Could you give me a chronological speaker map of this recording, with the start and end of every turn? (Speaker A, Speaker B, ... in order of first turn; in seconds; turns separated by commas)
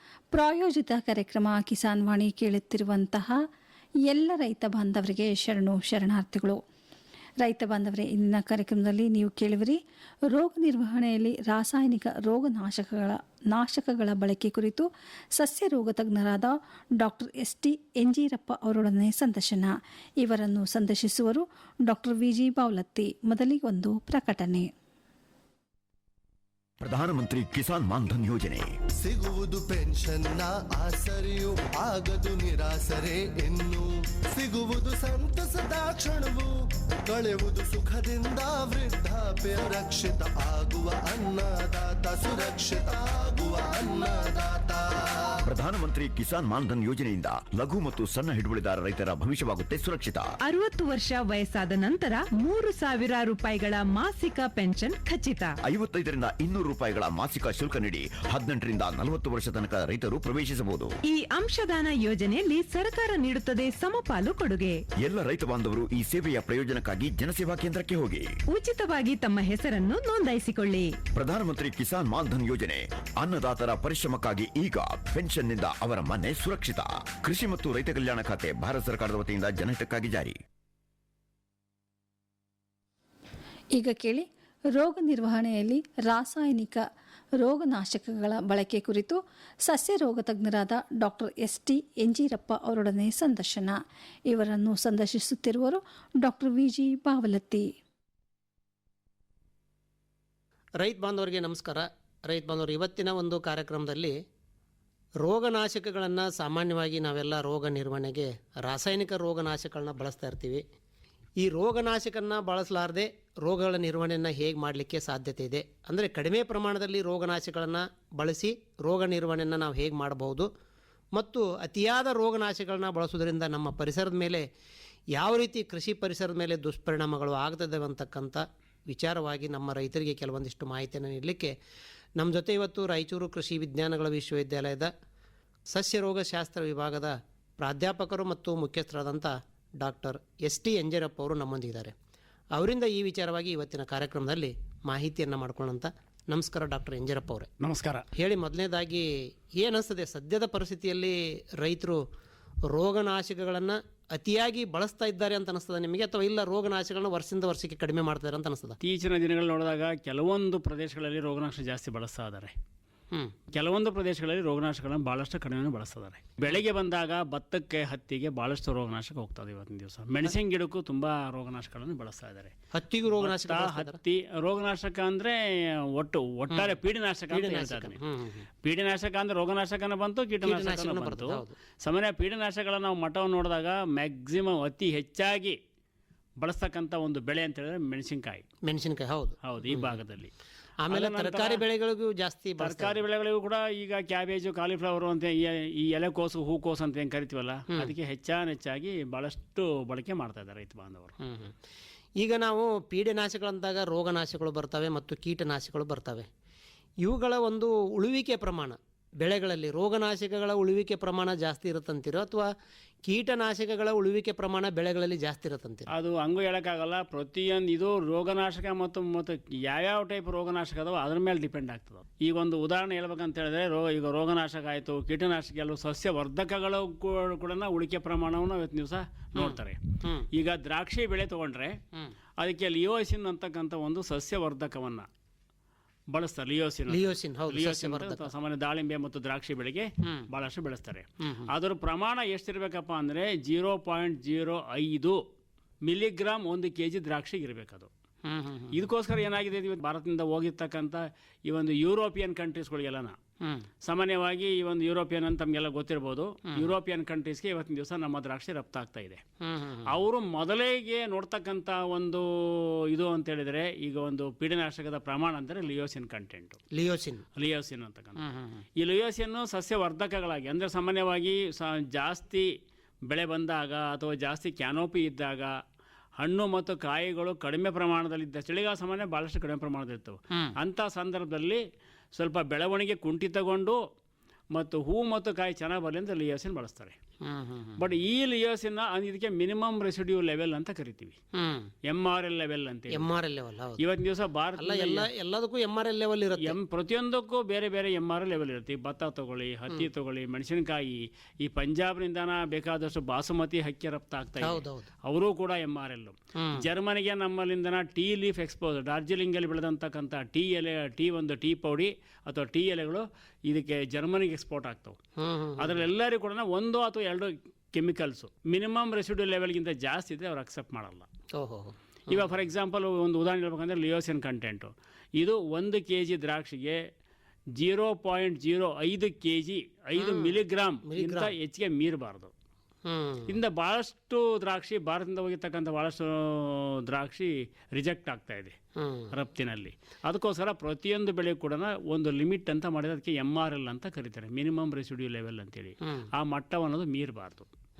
Speaker A: 0.3-3.4, Speaker A: 4.0-6.6, Speaker A: 7.4-24.7, Speaker B: 26.8-28.7, Speaker C: 29.0-36.5, Speaker C: 37.0-45.4, Speaker B: 45.5-50.2, Speaker D: 50.5-55.5, Speaker B: 55.6-60.9, Speaker D: 61.1-64.8, Speaker B: 65.0-68.3, Speaker D: 68.5-70.9, Speaker B: 71.1-80.4, Speaker A: 83.7-86.8, Speaker A: 87.4-93.8, Speaker A: 94.3-97.7, Speaker E: 100.8-104.2, Speaker E: 105.2-110.6, Speaker E: 111.4-120.5, Speaker E: 121.1-124.5, Speaker E: 125.1-131.5, Speaker E: 132.2-134.9, Speaker E: 135.7-141.9, Speaker E: 142.5-147.5, Speaker F: 147.6-148.1, Speaker E: 148.1-152.0, Speaker E: 152.7-158.8, Speaker F: 158.8-162.5, Speaker F: 163.5-172.5, Speaker E: 172.7-174.0, Speaker F: 173.2-178.0, Speaker E: 177.3-178.4, Speaker F: 178.6-185.6, Speaker E: 180.4-181.5, Speaker F: 186.4-188.4, Speaker E: 188.6-190.0, Speaker F: 189.4-190.3, Speaker E: 190.8-193.0, Speaker F: 190.9-191.6, Speaker F: 192.6-201.1, Speaker E: 201.2-201.5, Speaker E: 202.2-206.3, Speaker E: 207.0-212.5, Speaker E: 213.0-215.9, Speaker F: 215.9-229.8, Speaker E: 229.4-230.3, Speaker F: 230.3-231.8, Speaker F: 232.4-235.1, Speaker F: 236.1-245.2, Speaker E: 236.9-238.3, Speaker E: 241.2-241.5, Speaker F: 245.8-247.9, Speaker E: 248.2-248.7, Speaker F: 248.7-253.2, Speaker E: 253.4-253.7, Speaker F: 253.8-259.2, Speaker E: 259.4-259.9, Speaker F: 259.9-266.6, Speaker E: 266.7-267.2, Speaker F: 267.4-268.2, Speaker E: 268.2-268.6, Speaker F: 268.8-272.5, Speaker F: 273.1-275.6, Speaker F: 276.2-281.6, Speaker F: 282.1-283.8, Speaker F: 284.5-287.0, Speaker E: 287.2-287.8, Speaker F: 287.8-291.2, Speaker E: 291.3-291.7, Speaker F: 291.8-293.1, Speaker E: 292.9-293.8, Speaker F: 293.8-295.1, Speaker E: 294.6-296.6, Speaker F: 296.4-315.0, Speaker E: 304.4-304.9, Speaker E: 306.4-306.6, Speaker E: 315.2-315.8, Speaker F: 315.6-321.1, Speaker E: 321.3-322.2, Speaker F: 322.1-326.8, Speaker F: 327.6-332.3, Speaker E: 330.0-331.3, Speaker E: 332.9-333.4, Speaker F: 333.3-338.6, Speaker E: 338.8-339.1, Speaker F: 339.1-347.5, Speaker E: 345.8-346.1